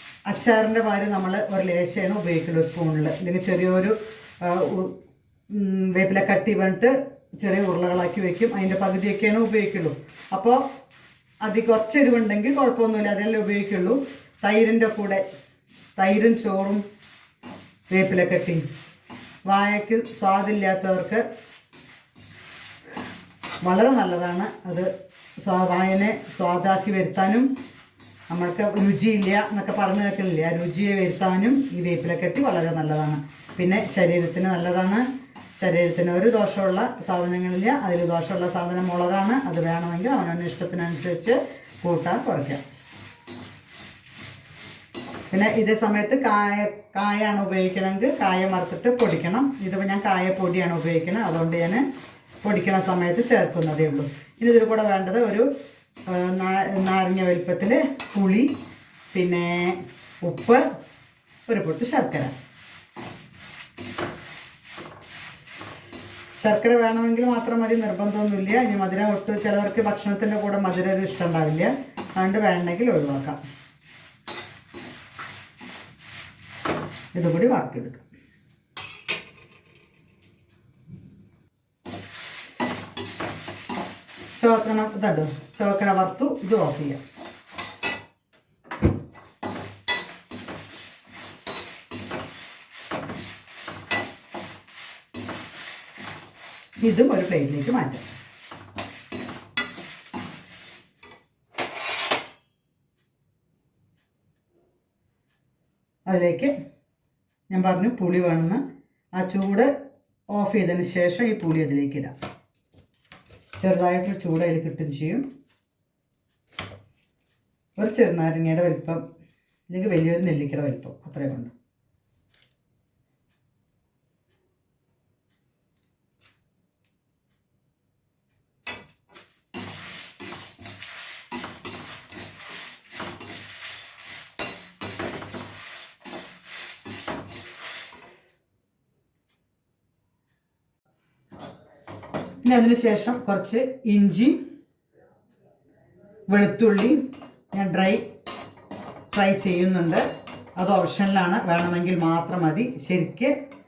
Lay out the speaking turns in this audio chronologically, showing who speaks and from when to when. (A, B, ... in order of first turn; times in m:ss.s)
0:00.3-0:04.9 A
0:05.5-0:10.6 A
0:11.4-0:15.2 A
0:16.0-0:16.8 A
0:17.9-0:18.7 A
0:19.4-0:21.2 A
0:23.6-0:24.9 A
0:25.4-0:27.5 A
0:28.3-0:42.6 A
0:45.3-0:51.8 A
0:52.4-0:55.5 A
0:56.1-0:58.5 A
0:59.1-1:00.6 A
1:01.4-1:02.3 A
1:06.4-1:13.4 A
1:17.1-1:18.0 A
1:24.4-1:27.0 A
1:36.8-1:38.0 A
1:46.0-1:46.5 A
1:47.5-1:48.6 A
1:49.1-1:49.7 A
1:50.3-1:52.1 A
1:53.6-1:55.2 A
1:57.8-1:59.0 A
1:59.7-2:01.5 A
2:22.4-2:24.4 A
2:26.3-2:27.0 A
2:27.5-2:28.0 A
2:29.1-2:30.0 A
2:30.6-2:33.3 A